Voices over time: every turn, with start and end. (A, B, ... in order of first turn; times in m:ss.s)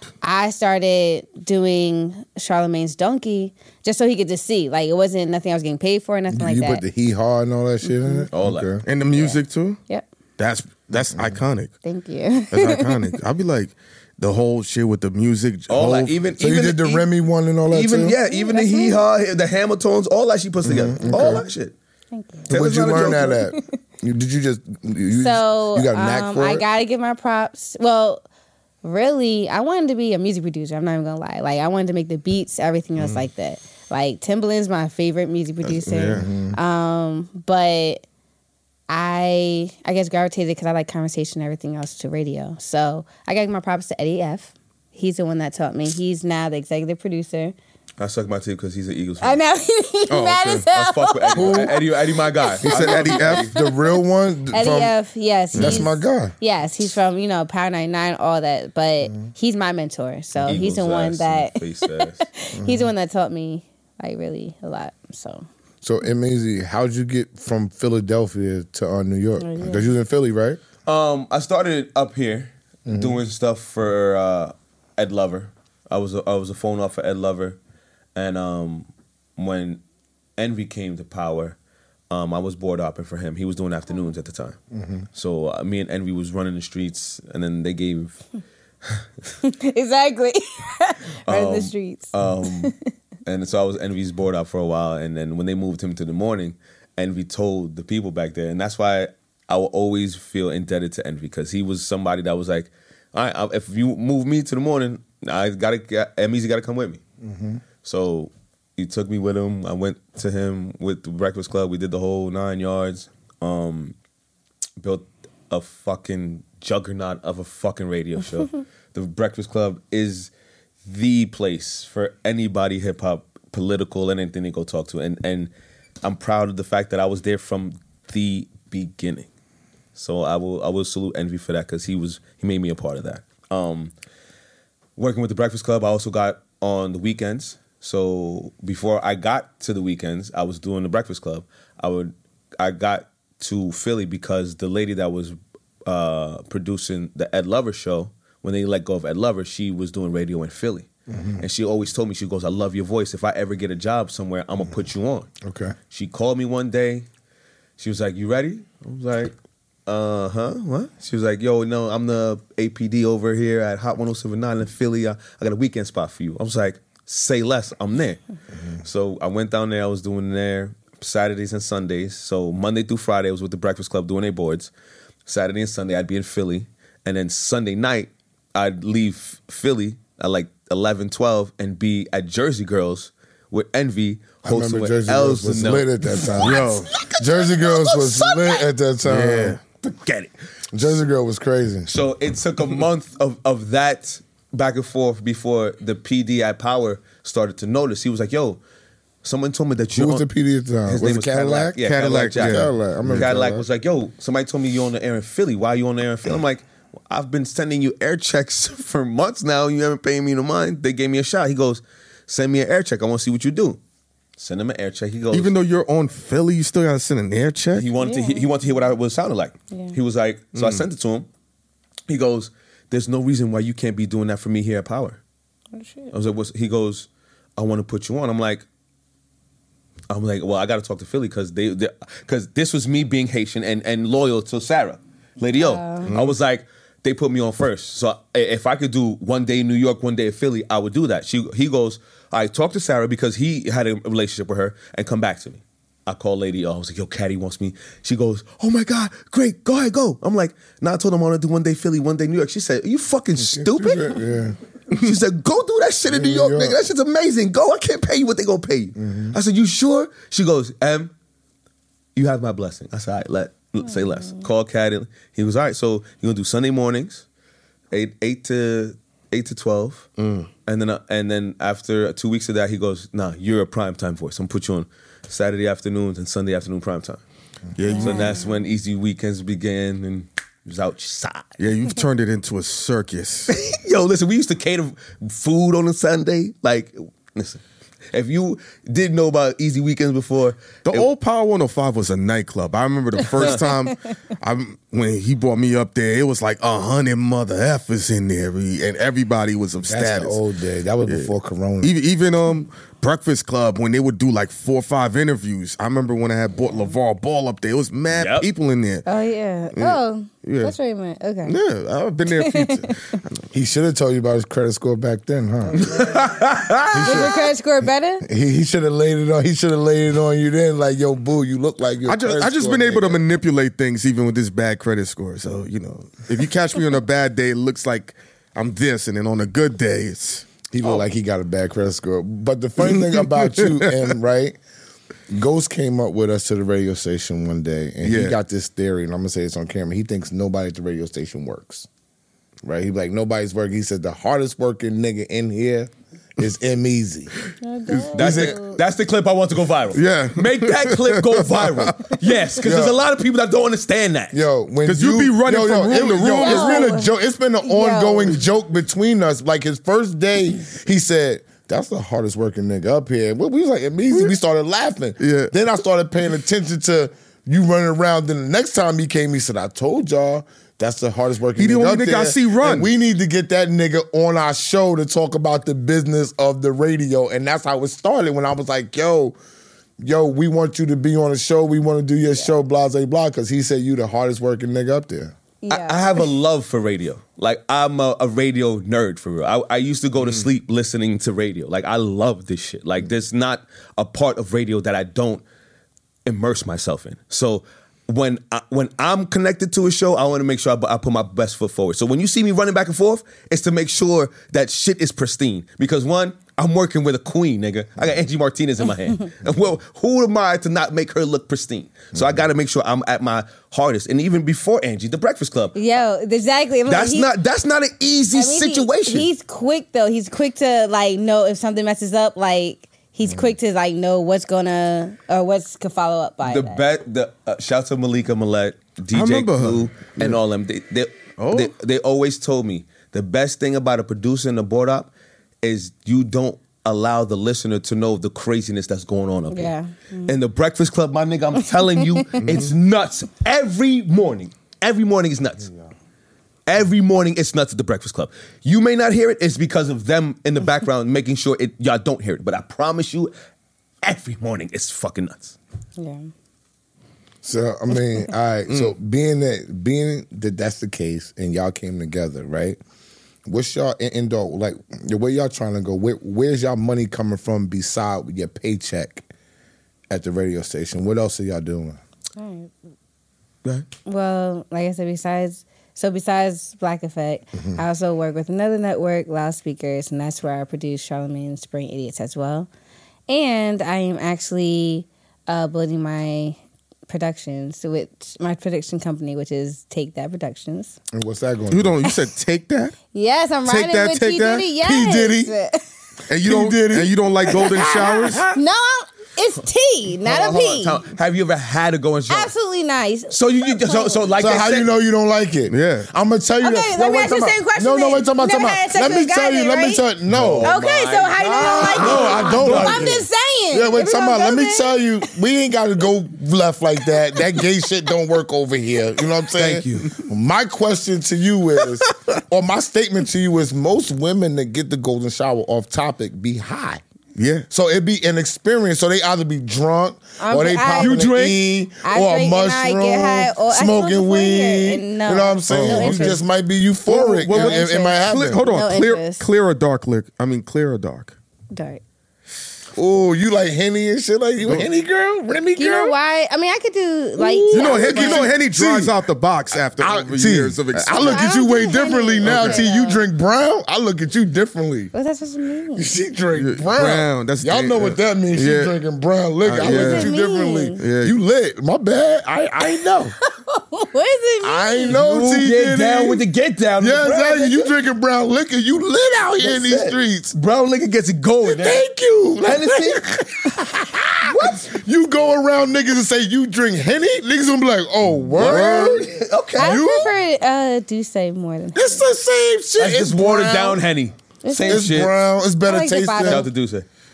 0:00.2-0:06.8 A
0:06.3-0:08.8 B
0:07.9-0:08.3 A
0:08.3-0:08.7 C
0:08.8-0:09.8 D
0:09.1-0:10.0 A
0:10.4-0:11.7 D
0:11.8-0:13.2 A
0:12.5-0:16.2 D
0:15.7-0:17.1 C
0:16.4-0:18.2 B
0:17.7-0:21.7 C
0:18.3-0:19.0 A
0:20.6-0:21.4 B
0:22.1-0:23.6 A
0:22.5-0:23.4 C
0:22.5-0:26.6 B
0:25.2-0:28.2 A
0:28.8-0:38.0 A
0:35.6-0:36.3 D
0:36.1-0:36.6 B
0:38.9-0:47.6 A
0:48.0-0:49.4 C
0:49.2-0:54.0 A
0:50.1-0:50.6 D
0:50.7-0:53.5 C
0:51.3-0:51.8 B
0:52.6-0:53.5 D
0:52.7-0:54.9 B
0:54.5-1:05.5 A
0:55.6-0:55.8 D
0:55.6-0:56.3 B
1:00.4-1:02.2 C
1:02.6-1:02.9 B
1:05.8-1:10.6 B
1:09.4-1:09.9 A
1:10.9-1:17.6 C
1:12.9-1:13.2 B
1:18.2-1:19.8 C
1:20.4-1:21.6 C
1:22.1-1:24.6 C
1:24.8-1:25.0 B
1:25.1-1:28.2 C
1:29.4-1:32.9 A
1:31.3-1:32.7 C
1:33.2-1:47.0 C
1:47.2-1:47.6 B
1:47.8-1:54.0 C
1:54.8-2:00.3 C
2:00.9-2:05.5 C
2:06.0-2:09.3 C
2:10.0-2:13.9 C
2:15.0-2:30.9 C
2:31.1-2:31.4 B
2:31.4-2:35.3 C
2:35.4-2:35.8 B
2:35.9-2:37.1 C
2:37.8-2:39.3 C
2:39.9-2:48.2 C
2:48.8-2:54.7 C
2:55.3-3:08.7 C
3:04.4-3:06.6 B
3:06.4-3:06.9 D
3:07.2-3:09.6 B
3:09.0-3:09.6 D
3:09.8-3:10.3 C
3:10.7-3:11.9 B
3:11.9-3:18.6 C
3:19.2-3:20.3 C
3:20.0-3:21.8 B
3:20.9-3:33.8 C
3:21.8-3:23.3 D
3:22.4-3:23.6 B
3:34.4-3:35.5 C
3:35.3-3:37.9 D
3:37.8-3:41.3 C
3:38.0-3:38.5 A
3:39.7-3:40.0 A
3:40.6-3:40.8 D
3:42.1-3:45.2 C
3:45.7-3:46.1 A
3:46.1-3:48.6 C
3:50.1-4:14.2 C
3:55.6-3:56.1 A
3:56.1-3:56.4 D
4:13.4-4:14.6 B
4:14.9-4:21.1 C
4:16.1-4:16.8 B
4:19.0-4:19.4 B
4:22.2-4:27.2 C
4:27.9-4:30.1 C
4:30.2-4:30.5 D
4:30.7-4:37.2 C
4:37.8-4:38.3 D
4:37.9-4:38.5 A
4:38.0-4:41.6 C
4:41.6-4:43.5 D
4:43.5-4:51.1 C
4:50.9-5:00.4 D
4:53.3-4:53.6 C
4:59.8-5:01.9 B
5:01.8-5:09.0 D
5:08.1-5:08.5 C
5:09.1-5:11.6 A
5:09.8-5:10.7 D
5:11.5-5:13.2 D
5:12.3-5:13.2 A
5:13.5-5:16.0 B
5:15.8-5:17.3 C
5:16.9-5:17.4 B
5:16.9-5:18.2 A
5:18.2-5:23.2 B
5:22.1-5:30.5 D
5:30.7-5:34.6 B
5:32.8-5:34.1 D
5:35.3-5:41.9 B
5:38.0-5:38.4 D
5:42.6-5:47.3 B
5:47.6-5:48.8 A
5:47.9-5:48.1 D
5:48.1-5:48.6 B
5:48.1-5:54.4 C
5:50.0-5:52.1 D
5:52.6-5:53.0 B
5:54.3-6:19.4 B
5:54.8-5:56.9 D
5:56.3-5:57.1 A
5:57.6-5:58.4 A
6:05.2-6:05.5 D
6:11.6-6:12.9 D
6:20.0-6:25.3 B
6:25.6-6:26.2 A
6:25.7-6:35.4 C
6:36.3-6:55.8 C
6:55.8-6:57.3 A
6:56.9-6:59.3 C
6:58.3-7:06.8 A
7:06.4-7:15.1 C
7:09.1-7:10.4 D
7:11.4-7:11.7 D
7:15.6-7:19.7 C
7:19.5-7:20.4 A
7:20.3-7:25.7 C
7:22.4-7:22.7 D
7:26.7-7:33.3 C
7:34.0-7:35.6 C
7:36.0-7:36.3 A
7:37.4-7:42.8 B
7:43.5-7:49.3 B
7:50.1-7:52.0 B
7:52.4-7:52.7 A
7:54.0-8:02.7 A
7:57.6-7:57.8 B
8:03.3-8:11.0 A
8:11.1-8:12.0 B
8:11.7-8:13.0 D
8:13.1-8:15.8 A
8:13.7-8:14.7 D
8:14.8-8:15.5 B
8:16.3-8:18.5 D
8:16.3-8:18.4 B
8:17.7-8:21.0 A
8:20.2-8:22.5 C
8:22.3-8:24.3 A
8:23.3-8:24.9 C
8:24.3-8:30.7 B
8:25.7-8:26.1 D
8:26.6-8:30.0 A
8:30.3-8:33.1 C
8:30.6-8:35.0 A
8:31.4-8:47.0 B
8:32.6-8:32.9 D
8:39.6-8:40.2 C
8:47.4-8:47.7 D
8:47.7-8:58.7 B
8:50.4-8:51.3 A
8:51.0-8:51.6 C
8:52.0-8:56.4 A
8:55.7-8:56.4 D
8:57.1-9:01.4 D
8:57.1-8:59.4 A
9:01.7-9:02.0 A
9:03.0-9:06.1 B
9:05.8-9:08.5 A
9:07.4-9:09.2 B
9:07.7-9:11.4 D
9:09.7-9:15.1 B
9:11.2-9:13.2 A
9:12.4-9:12.8 D
9:15.1-9:16.1 A
9:16.0-9:23.3 B
9:16.6-9:18.9 D
9:19.6-9:20.3 D
9:19.8-9:21.0 A
9:21.0-9:21.4 D
9:23.6-9:25.2 A
9:24.6-9:26.4 B
9:25.1-9:27.9 C
9:27.0-9:30.5 B
9:29.6-9:32.1 C
9:31.6-9:40.3 B
9:32.6-9:33.2 C
9:34.4-9:34.9 C
9:38.5-9:39.3 D
9:38.6-9:40.0 C
9:39.8-9:42.3 A
9:42.0-9:44.0 B
9:43.0-9:45.3 C
9:44.6-9:45.2 A
9:44.9-9:46.7 B
9:45.8-9:46.7 A
9:46.4-9:47.1 C